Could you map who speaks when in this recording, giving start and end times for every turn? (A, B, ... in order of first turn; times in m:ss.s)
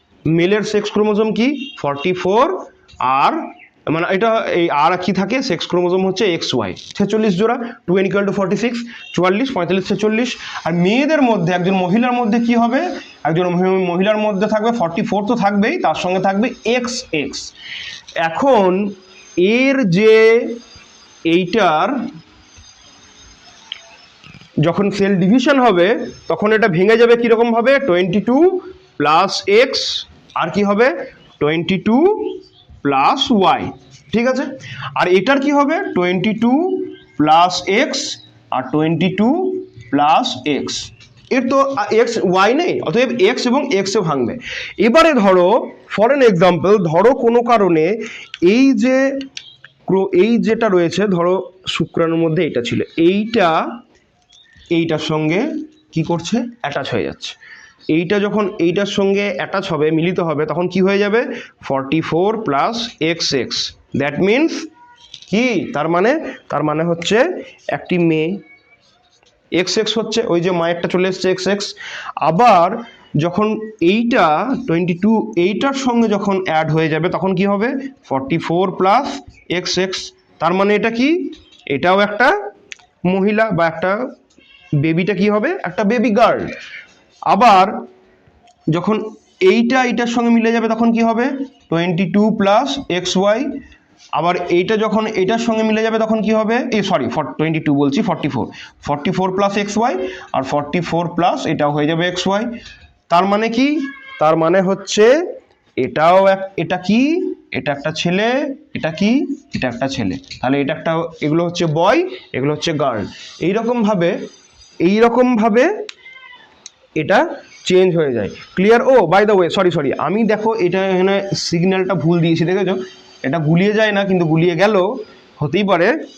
0:00.3-0:17.5 A
0:18.2-0:20.6 A
0:21.3-0:22.0 A
0:24.6-0:49.1 A
0:49.8-0:53.8 A
0:54.7-0:57.4 A
0:57.9-1:04.7 A
1:05.3-1:08.4 A
1:09.5-1:22.3 A
1:23.1-1:24.0 A
1:24.8-1:26.5 A
1:27.3-1:27.8 A
1:28.7-1:33.6 A
1:34.1-1:42.5 A
1:43.1-1:45.1 A
1:45.8-1:54.2 A
1:54.8-1:55.7 A
1:57.0-2:05.9 A